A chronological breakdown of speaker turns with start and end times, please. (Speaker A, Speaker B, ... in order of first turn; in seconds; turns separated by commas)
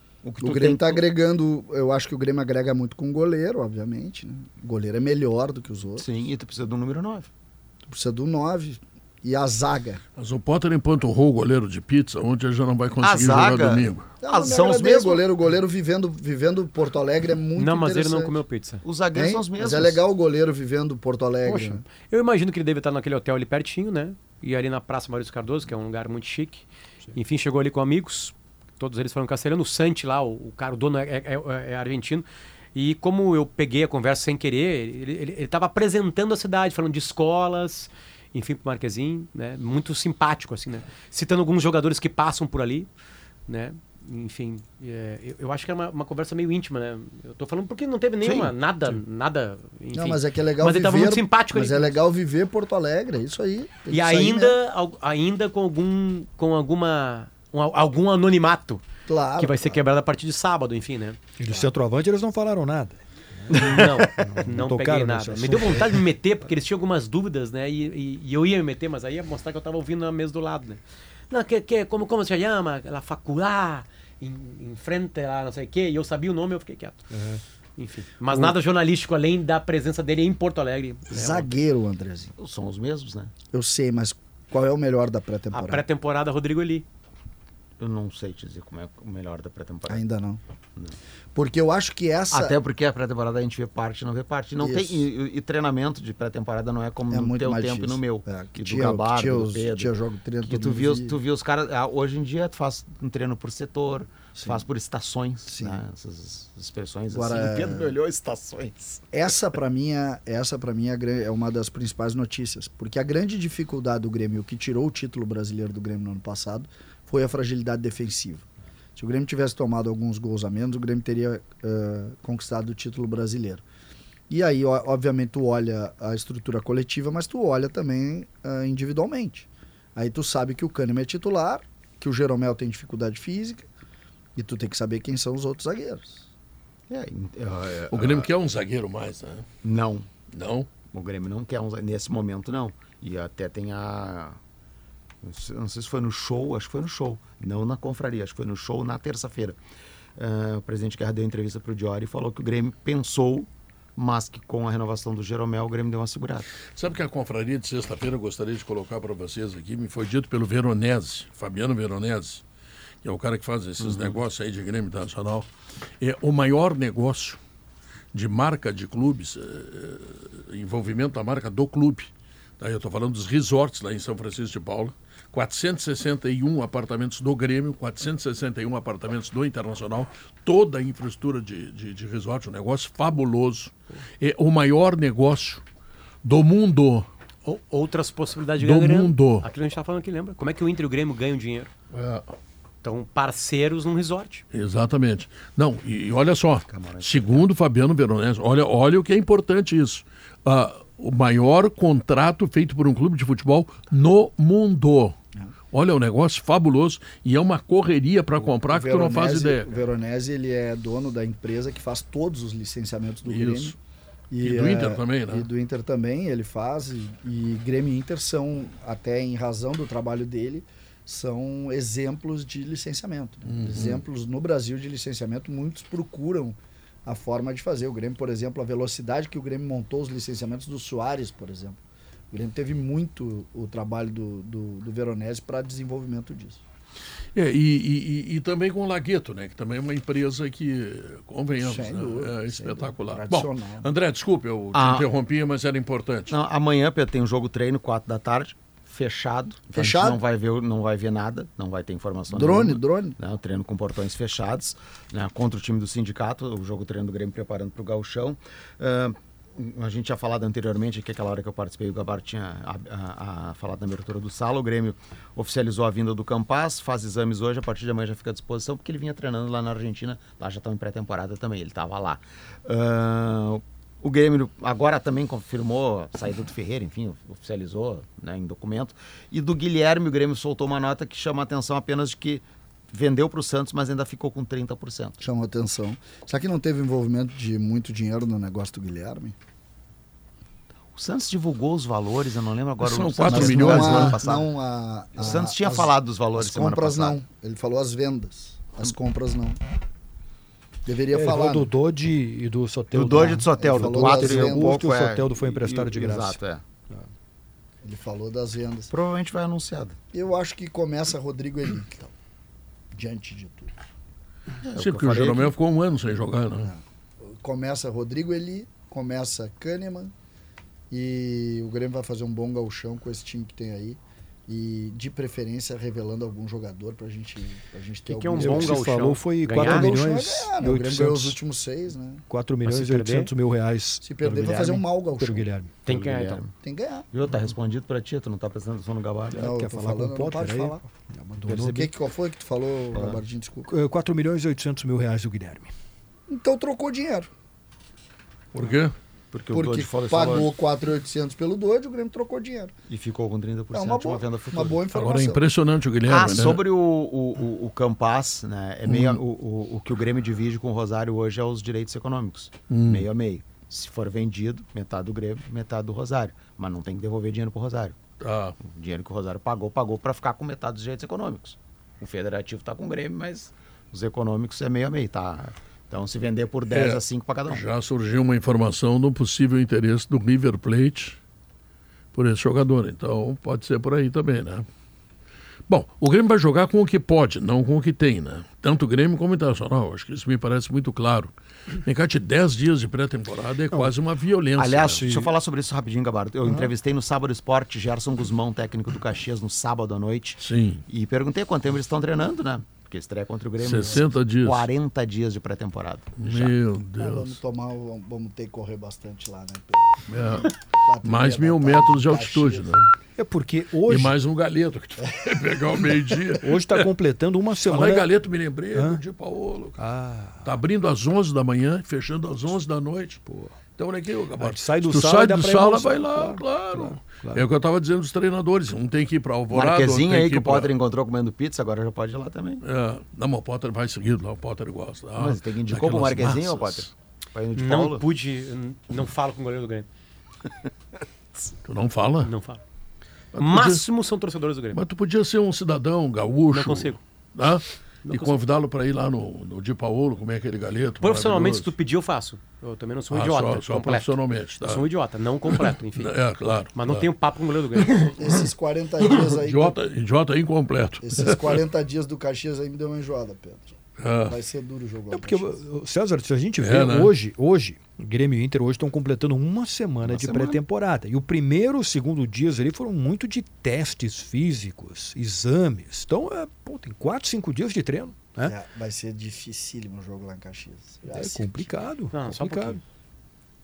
Speaker A: 0.2-1.1, Speaker B: 0.4-6.0, Speaker A: 6.0-7.3, Speaker B: 7.9-10.0, Speaker C: 10.2-14.0, Speaker A: 13.0-15.2, Speaker B: 14.2-18.4, Speaker D: 17.6-18.8, Speaker A: 18.8-20.0, Speaker B: 19.1-21.8, Speaker D: 21.4-42.9, Speaker D: 43.5-52.0, Speaker A: 48.2-48.5, Speaker B: 49.9-54.5, Speaker D: 53.9-58.9, Speaker B: 59.1-59.8, Speaker D: 59.4-61.2, Speaker E: 61.4-66.0, Speaker D: 63.6-77.0, Speaker E: 77.1-77.4, Speaker D: 77.8-81.5, Speaker B: 81.1-82.3, Speaker A: 82.4-83.3, Speaker B: 83.5-85.8, Speaker D: 85.5-86.8, Speaker A: 87.8-90.0, Speaker B: 89.9-90.4, Speaker B: 91.3-92.5, Speaker A: 92.3-109.0, Speaker B: 94.6-95.1, Speaker B: 97.1-101.2, Speaker B: 104.3-104.6, Speaker B: 105.5-105.8, Speaker B: 107.1-107.9, Speaker B: 109.1-123.6, Speaker B: 124.3-133.7, Speaker B: 134.3-136.2, Speaker A: 136.9-138.3, Speaker C: 137.9-139.4, Speaker A: 139.6-140.1, Speaker C: 140.3-140.7, Speaker A: 140.8-144.4, Speaker A: 145.2-149.6, Speaker A: 150.2-156.5, Speaker C: 156.7-162.4, Speaker C: 163.0-165.5, Speaker A: 163.8-164.2, Speaker C: 166.0-167.4, Speaker C: 168.1-185.6, Speaker C: 186.2-187.1, Speaker D: 187.4-191.7, Speaker C: 188.6-189.4, Speaker C: 191.9-192.3, Speaker D: 192.8-194.4, Speaker C: 194.5-205.2, Speaker A: 196.7-197.5, Speaker C: 205.7-209.7, Speaker B: 208.4-213.8, Speaker C: 213.2-213.8, Speaker B: 214.3-231.8, Speaker C: 214.4-215.5, Speaker C: 223.4-224.0, Speaker B: 232.3-236.6, Speaker C: 237.3-246.3, Speaker B: 241.6-243.9, Speaker A: 244.7-245.1, Speaker A: 246.3-285.2, Speaker B: 249.7-250.2, Speaker B: 252.3-253.2, Speaker B: 285.2-289.3, Speaker A: 290.9-294.5, Speaker C: 292.8-294.2, Speaker B: 293.3-299.6, Speaker A: 295.1-297.2, Speaker B: 300.9-301.7, Speaker E: 301.1-306.4, Speaker A: 302.9-306.6, Speaker B: 303.5-304.8, Speaker B: 307.8-308.9, Speaker A: 308.9-310.0, Speaker B: 310.1-312.1, Speaker B: 312.9-313.7, Speaker A: 314.6-315.5, Speaker C: 314.8-316.7, Speaker B: 316.6-320.1, Speaker B: 320.9-328.8, Speaker D: 328.1-329.9, Speaker E: 328.4-331.4, Speaker B: 329.6-332.2, Speaker E: 332.3-335.7, Speaker D: 332.6-333.3, Speaker B: 334.0-335.5, Speaker D: 335.9-336.4, Speaker A: 335.9-336.5, Speaker B: 336.6-337.1, Speaker A: 337.1-339.5, Speaker E: 339.3-341.9, Speaker B: 339.3-340.9, Speaker B: 341.5-343.7, Speaker A: 342.9-343.2, Speaker E: 343.7-345.7, Speaker B: 346.3-347.3, Speaker C: 348.5-348.9, Speaker A: 349.3-350.6, Speaker B: 349.5-352.7, Speaker A: 352.9-354.8, Speaker B: 353.7-355.4, Speaker C: 354.9-356.6, Speaker A: 356.1-368.0, Speaker C: 362.7-363.0, Speaker C: 368.2-368.5, Speaker A: 368.6-377.6, Speaker C: 376.7-381.2, Speaker C: 382.1-384.7, Speaker C: 385.7-391.3, Speaker C: 391.8-395.1, Speaker A: 394.6-406.5, Speaker C: 400.4-400.8, Speaker C: 403.6-404.6, Speaker C: 406.2-407.4, Speaker B: 407.0-412.7, Speaker C: 410.1-410.5, Speaker C: 411.0-412.9, Speaker E: 413.2-414.1, Speaker C: 413.9-416.9, Speaker E: 416.4-418.1, Speaker C: 417.6-419.8, Speaker E: 418.7-419.0, Speaker E: 419.8-420.5, Speaker C: 420.4-423.2, Speaker E: 423.3-423.6, Speaker C: 423.8-430.7, Speaker E: 424.4-427.4, Speaker A: 429.5-432.6, Speaker C: 432.6-436.9, Speaker A: 435.1-438.1, Speaker D: 437.6-439.9, Speaker C: 441.6-442.3, Speaker D: 442.2-442.6, Speaker C: 443.3-443.8, Speaker D: 443.4-444.8, Speaker C: 444.7-451.7, Speaker D: 446.5-447.0, Speaker D: 448.0-448.4, Speaker D: 451.0-456.1, Speaker C: 453.1-454.9, Speaker C: 455.5-457.1, Speaker D: 456.7-458.4, Speaker C: 457.7-458.1, Speaker B: 458.2-459.8, Speaker C: 459.0-461.6, Speaker B: 461.0-465.6, Speaker C: 464.0-464.4, Speaker E: 465.1-478.5, Speaker C: 466.6-467.1, Speaker A: 470.0-470.6, Speaker B: 478.4-481.7, Speaker E: 481.1-482.8, Speaker D: 482.1-482.8